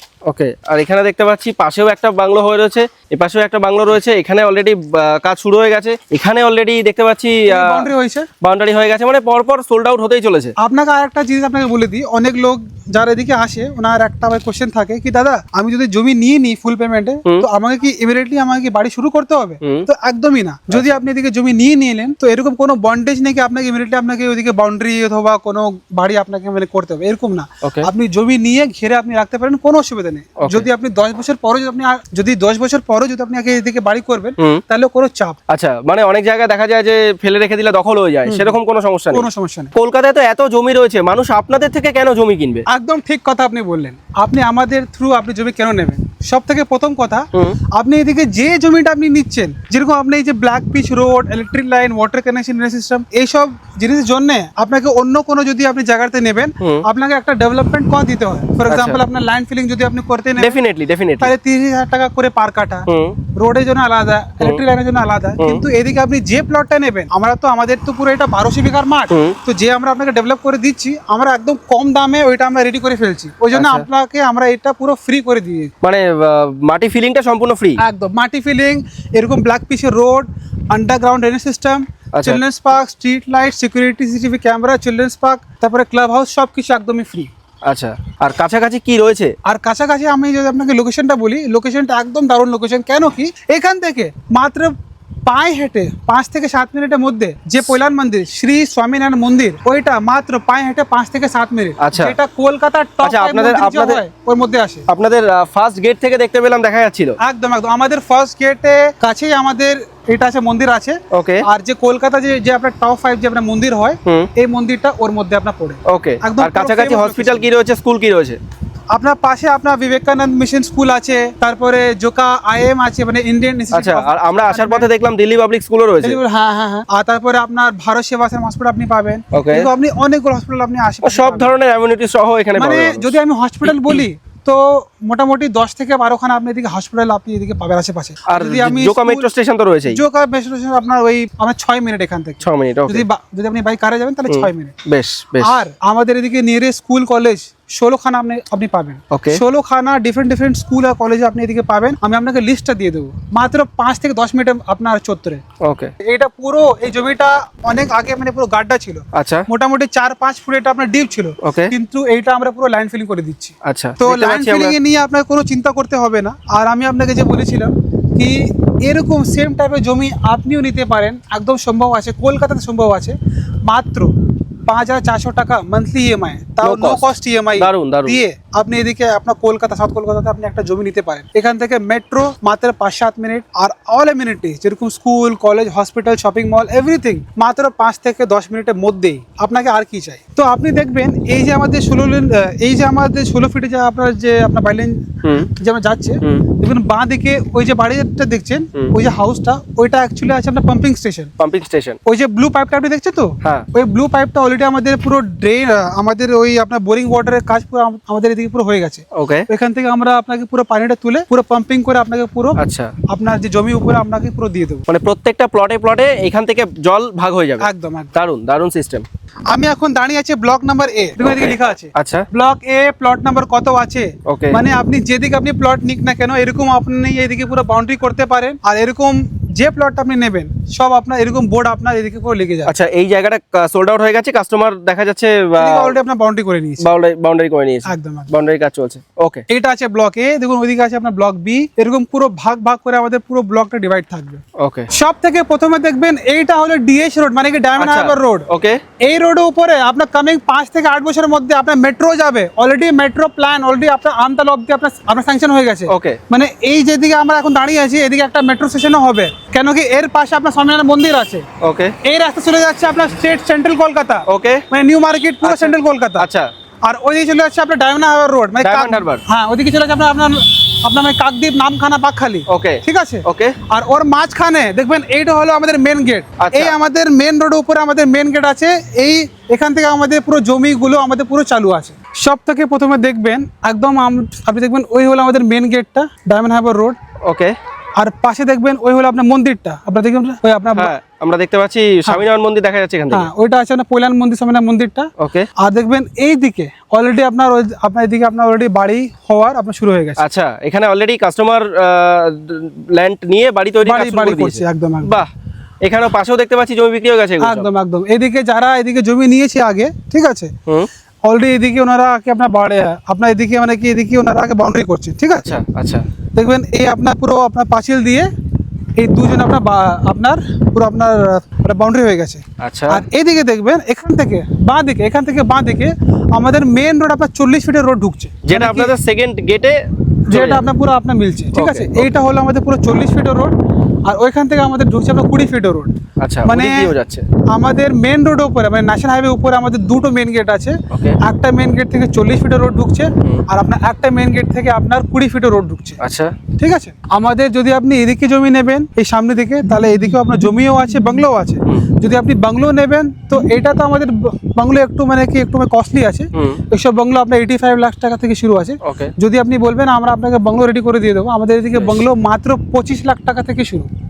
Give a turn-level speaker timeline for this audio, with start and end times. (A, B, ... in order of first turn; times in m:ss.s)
0:00.2-0:07.9 A
0:07.5-0:08.3 B
0:08.4-0:10.5 A
0:10.6-0:35.4 B
0:20.7-0:21.0 A
0:27.6-0:27.9 A
0:35.5-0:42.6 A
0:38.2-0:38.6 B
0:39.1-0:39.7 B
0:42.7-1:00.6 B
0:58.7-0:59.0 A
1:00.4-1:01.3 A
1:01.2-1:15.7 B
1:02.9-1:03.2 A
1:05.4-1:05.6 A
1:09.1-1:09.4 A
1:13.5-1:13.8 A
1:15.8-1:17.8 A
1:17.8-1:27.3 B
1:22.1-1:22.4 A
1:27.6-1:29.3 A
1:29.4-1:34.7 B
1:35.2-1:44.9 B
1:41.8-1:42.2 A
1:43.0-1:44.0 A
1:44.9-1:47.2 A
1:47.2-1:57.5 B
1:51.1-1:51.4 A
1:55.9-1:58.4 A
1:58.9-2:04.9 B
2:03.7-2:06.2 A
2:06.0-2:11.5 B
2:09.3-2:09.7 A
2:11.0-2:14.0 A
2:12.6-2:19.3 B
2:18.3-2:20.0 A
2:19.9-2:24.8 B
2:22.4-2:23.0 A
2:24.3-2:25.6 A
2:25.4-2:35.4 B
2:29.1-2:29.4 A
2:35.6-2:35.9 A
2:36.0-2:54.1 B
2:39.1-2:39.5 A
2:41.4-2:41.7 A
2:43.6-2:44.8 A
2:54.7-3:21.3 B
2:56.6-2:58.2 A
3:21.4-3:22.0 A
3:22.0-3:32.6 B
3:29.1-3:29.4 A
3:32.6-3:32.9 A
3:33.1-3:34.8 B
3:34.9-3:39.0 A
3:37.6-3:38.2 B
3:39.5-3:52.7 B
3:41.2-3:42.2 A
3:44.3-3:44.6 A
3:52.7-3:56.0 A
3:55.6-3:56.8 B
3:56.8-3:59.4 A
3:57.8-3:58.3 B
3:59.5-4:08.5 B
4:04.6-4:04.9 A
4:07.8-4:08.8 A
4:09.0-4:21.5 B
4:15.9-4:16.2 A
4:21.6-4:21.9 A
4:22.0-4:26.2 B
4:24.3-4:24.6 A
4:25.4-4:26.5 A
4:26.8-4:47.0 B
4:28.6-4:29.2 A
4:32.5-4:33.6 A
4:36.4-4:36.7 A
4:47.2-4:47.5 A
4:48.0-4:50.9 B
4:50.8-4:53.3 A
4:53.1-5:00.2 B
4:55.2-4:55.5 A
5:00.2-5:05.3 A
5:03.8-5:05.2 B
5:05.8-5:07.7 A
5:07.4-5:10.5 B
5:11.2-5:15.5 B
5:15.4-5:16.0 A
5:16.3-5:18.3 B
5:19.0-5:28.9 B
5:22.6-5:23.0 A
5:28.4-5:29.8 A
5:30.3-5:30.6 A
5:30.3-5:33.5 B
5:31.5-5:32.1 A
5:34.0-5:35.9 B
5:36.2-5:37.2 A
5:36.4-5:36.9 B
5:37.5-5:46.0 B
5:40.9-5:41.2 A
5:46.0-5:46.3 A
5:46.6-6:03.9 B
5:56.3-5:56.6 A
5:58.8-5:59.1 A
6:01.7-6:02.1 A